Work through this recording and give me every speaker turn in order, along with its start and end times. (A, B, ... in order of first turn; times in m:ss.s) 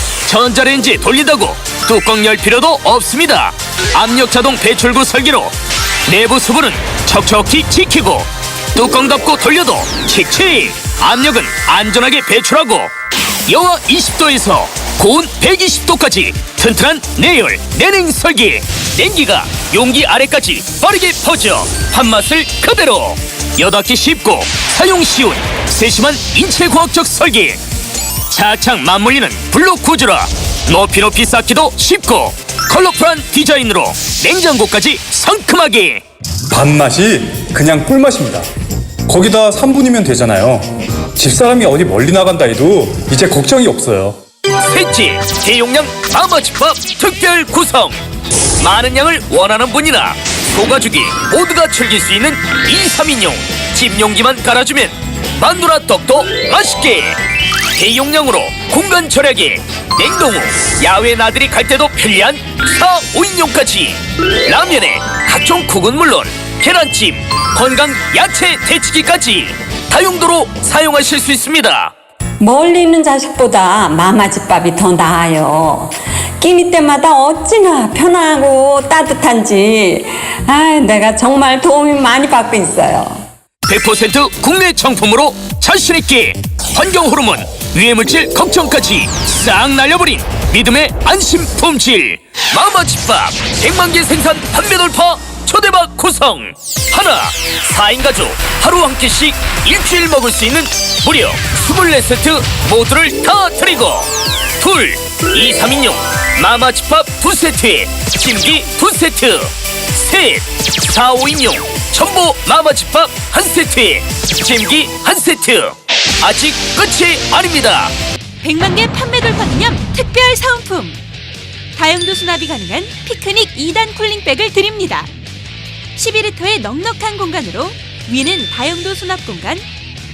0:00.2-0:05.6 A
0:06.1-0:12.9 A
0:13.5-0:27.6 A
0:28.3-0:36.0 A
0:36.5-0:38.5 B
0:39.1-0:44.2 B
0:44.6-0:48.0 A
0:48.6-0:57.2 A
0:57.7-1:11.9 A
1:12.4-1:23.2 C
1:23.7-1:57.9 A
1:58.4-2:01.0 D
2:01.8-2:05.1 D
2:06.0-2:09.6 D